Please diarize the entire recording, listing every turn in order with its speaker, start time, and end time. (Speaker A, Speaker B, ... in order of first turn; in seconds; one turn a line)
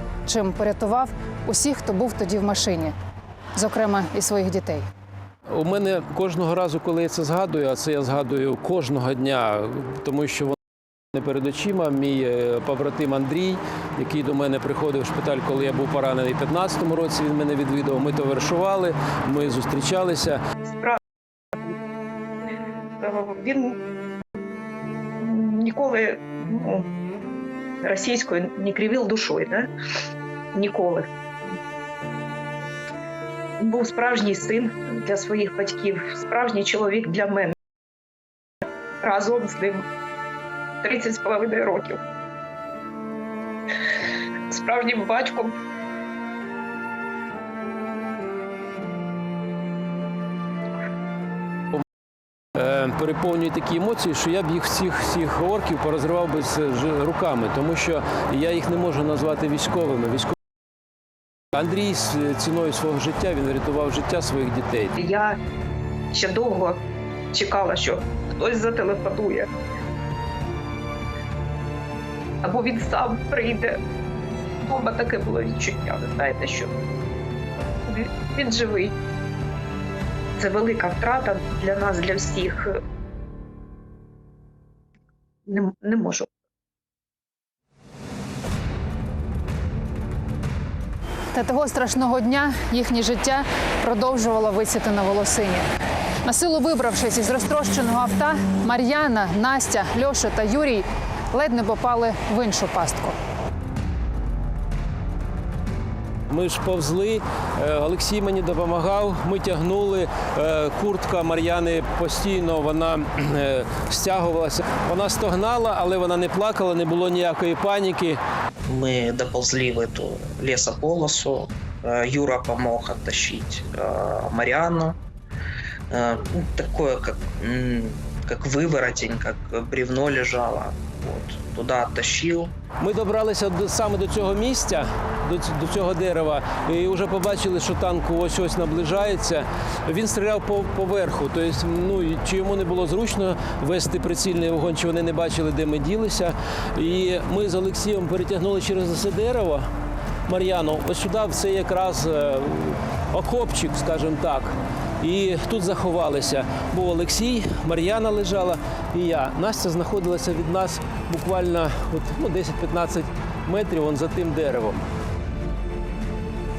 Speaker A: 0.3-3.0
Speaker A: 3.6-4.9
Speaker B: 5.5-10.6
Speaker B: 11.1-20.4
Speaker C: 20.7-21.0
Speaker C: 23.0-23.8
Speaker C: 25.2-26.9
Speaker C: 27.8-29.7
Speaker C: 30.5-31.1
Speaker C: 33.6-37.5
Speaker C: 39.0-39.9
Speaker C: 40.8-42.0
Speaker C: 44.5-45.6
Speaker B: 52.5-60.4
Speaker B: 61.5-65.0
Speaker C: 65.0-65.4
Speaker C: 66.1-69.5
Speaker C: 72.4-73.8
Speaker C: 74.6-76.8
Speaker C: 77.9-79.0
Speaker C: 80.4-82.8
Speaker C: 85.5-86.3
Speaker A: 91.3-95.7
Speaker A: 96.2-103.2
Speaker B: 106.3-118.2
Speaker D: 118.7-125.0
Speaker D: 125.9-132.5
Speaker B: 132.8-149.7
Speaker B: 150.3-164.8